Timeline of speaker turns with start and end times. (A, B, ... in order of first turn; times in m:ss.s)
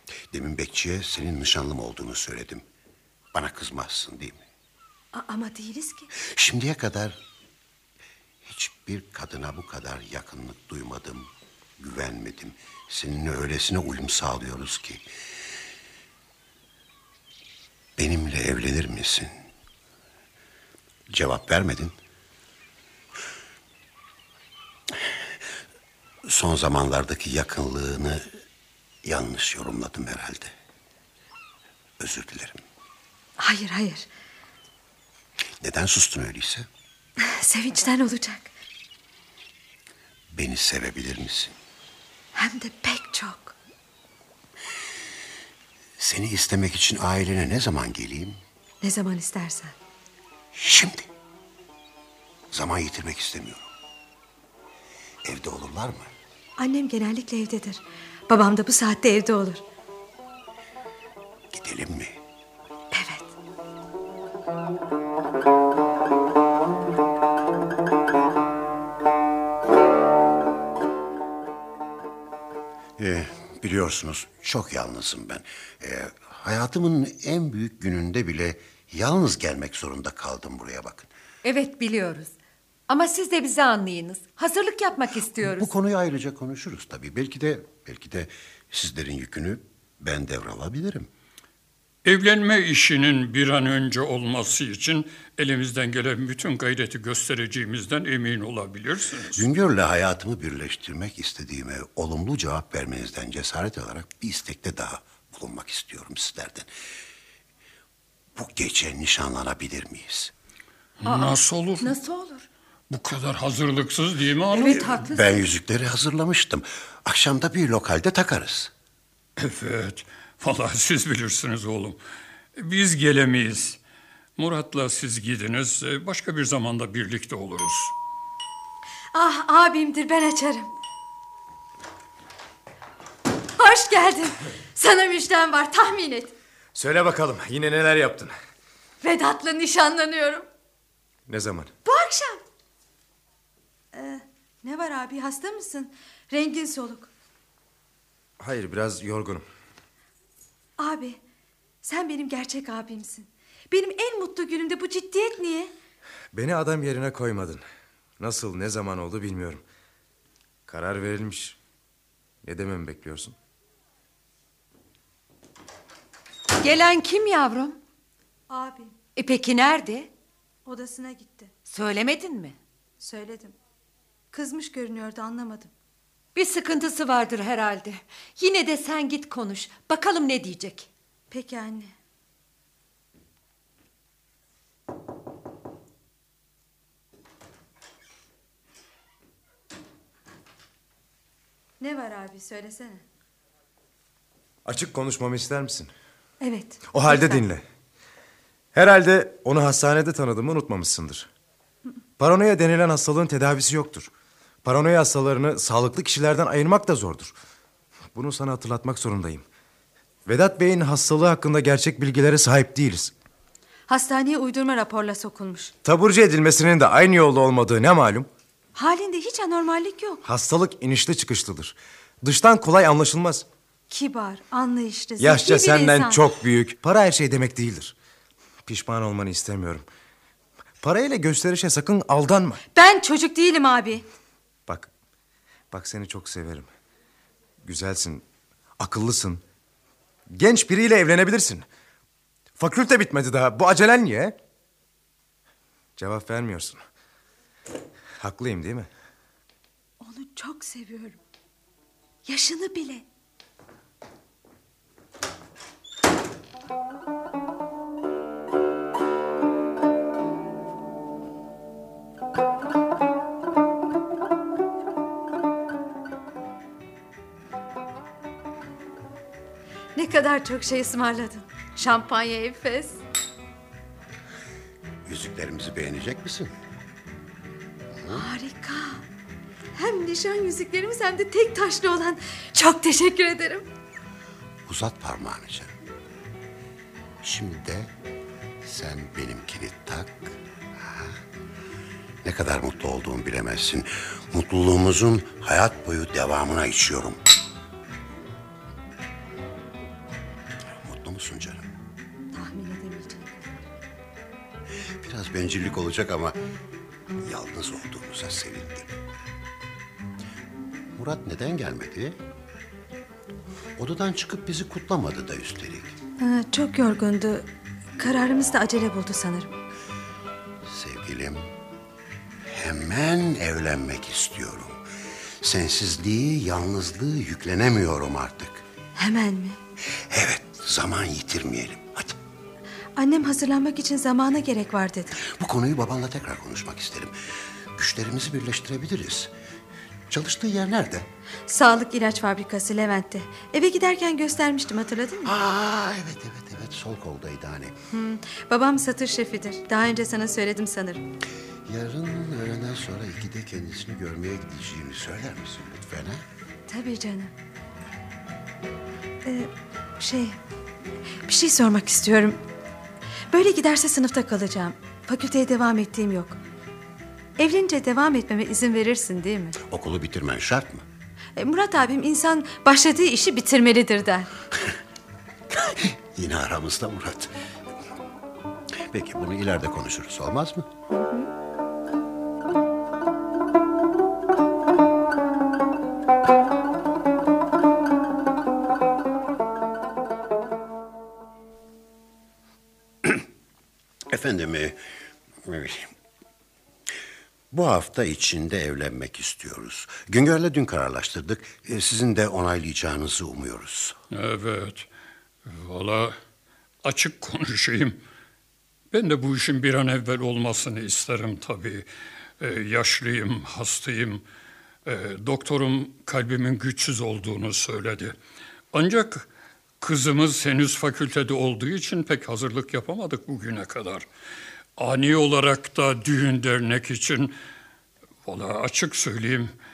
0:00.2-0:02.6 A
0:03.3-0:04.4 A
0:05.1-0:06.1 B
0:06.1-0:07.2 A
0:08.4-0:15.0 A
0:18.0-0:19.4 A
0:21.1-0:22.0 A
0:26.2-0:28.3 A
0:29.0-0:30.5 A
0:32.0-0:32.6 A
0:33.4-0:34.1 B
0:35.6-0:36.7 A
0:37.2-0:38.5 B
0:40.3-0:41.6 A
0:42.3-0:43.5 B
0:46.0-0:48.4 A
0:48.8-0:49.7 B
0:50.5-0:51.1 A
0:52.5-0:53.7 A
0:55.2-0:56.1 A
0:56.6-0:59.6 B
1:01.5-1:02.2 A
1:02.9-1:03.3 B
1:13.0-1:21.1 A
1:21.4-1:22.3 C
1:22.9-1:25.7 C
1:25.4-1:31.1 A
1:32.0-1:39.4 D
1:39.3-1:46.7 A
1:48.3-1:50.3 A
1:51.0-1:52.0 D
1:51.0-1:52.5 C
1:52.9-1:55.1 D
1:54.5-1:55.4 C
1:55.1-1:58.7 A
1:59.4-2:02.0 D
2:02.6-2:03.8 D
2:04.4-2:07.9 D
2:09.1-2:10.7 B
2:13.6-2:16.3 B
2:16.7-2:18.3 E
2:19.0-2:20.4 B
2:21.3-2:21.7 E
2:21.8-2:22.4 B
2:23.9-2:27.1 B
2:28.4-2:29.5 E
2:30.8-2:31.2 B
2:31.8-2:35.7 B
2:36.3-2:37.6 E
2:38.2-2:39.6 E
2:40.7-2:41.6 E
2:42.4-2:43.3 E
2:46.6-2:47.8 C
2:48.5-2:48.9 B
2:49.2-2:50.1 C
2:50.6-2:51.5 B
2:51.7-2:52.6 C
2:53.0-2:53.6 B
2:54.3-2:55.7 B
2:56.3-3:00.9 C
3:01.3-3:01.9 B
3:11.8-3:13.0 B
3:14.6-3:15.9 E
3:16.4-3:17.4 B
3:16.9-3:17.6 E
3:18.7-3:21.3 E
3:22.2-3:24.1 E
3:24.6-3:27.3 E
3:28.1-3:29.4 E
3:30.2-3:33.1 E
3:33.9-3:35.7 B
3:35.8-3:38.3 E
3:38.8-3:40.2 B
3:40.2-3:43.4 E
3:43.9-3:46.2 B
3:45.2-3:47.9 E
3:48.6-3:49.8 E
3:50.8-3:52.6 E
3:52.7-3:54.0 B
3:55.7-3:56.7 E
3:57.6-3:58.2 E
3:58.8-3:59.4 E
4:00.3-4:01.6 E
4:02.6-4:04.4 E
4:06.0-4:06.8 E
4:08.2-4:08.9 E
4:10.0-4:11.2 B
4:12.2-4:13.0 B
4:30.0-4:33.0 B
4:35.0-4:36.5 A
4:37.9-4:38.3 A
4:38.1-4:39.0 B
4:39.7-4:43.6 B
4:44.7-4:45.8 A
4:47.2-4:47.9 A
4:48.6-4:51.2 A
4:52.2-4:57.2 A
5:00.8-5:01.7 A
5:02.3-5:03.6 B
5:05.0-5:06.4 A
5:07.2-5:09.0 A
5:11.0-5:12.2 A
5:13.8-5:16.0 A
5:16.2-5:17.5 B
5:18.0-5:19.5 B
5:20.6-5:21.5 A
5:22.5-5:24.8 A
5:25.4-5:28.6 A
5:29.0-5:29.6 B
5:29.9-5:32.2 A
5:33.0-5:35.2 B
5:35.2-5:37.1 A
5:37.7-5:39.3 A
5:40.1-5:41.1 A
5:41.5-5:45.3 B
5:45.2-5:47.7 A
5:47.9-5:51.0 B
5:51.6-5:56.2 A
5:56.7-5:57.3 B
5:59.2-6:00.4 B
6:01.3-6:02.4 B
6:03.3-6:06.4 B
6:07.4-6:09.6 B
6:09.6-6:10.8 A
6:11.4-6:14.3 B
6:15.5-6:17.3 A
6:18.8-6:20.7 A
6:20.9-6:21.3 B
6:34.1-6:34.8 A
6:35.4-6:35.9 A
6:37.5-6:44.0 A
6:44.1-6:44.9 D
6:45.5-6:46.2 D
6:46.8-6:48.0 D
6:48.9-6:51.9 D
6:52.4-6:54.2 D
6:54.8-6:58.2 D
6:58.7-6:59.3 D
6:59.8-7:04.1 D
7:04.8-7:07.3 D
7:08.2-7:09.5 D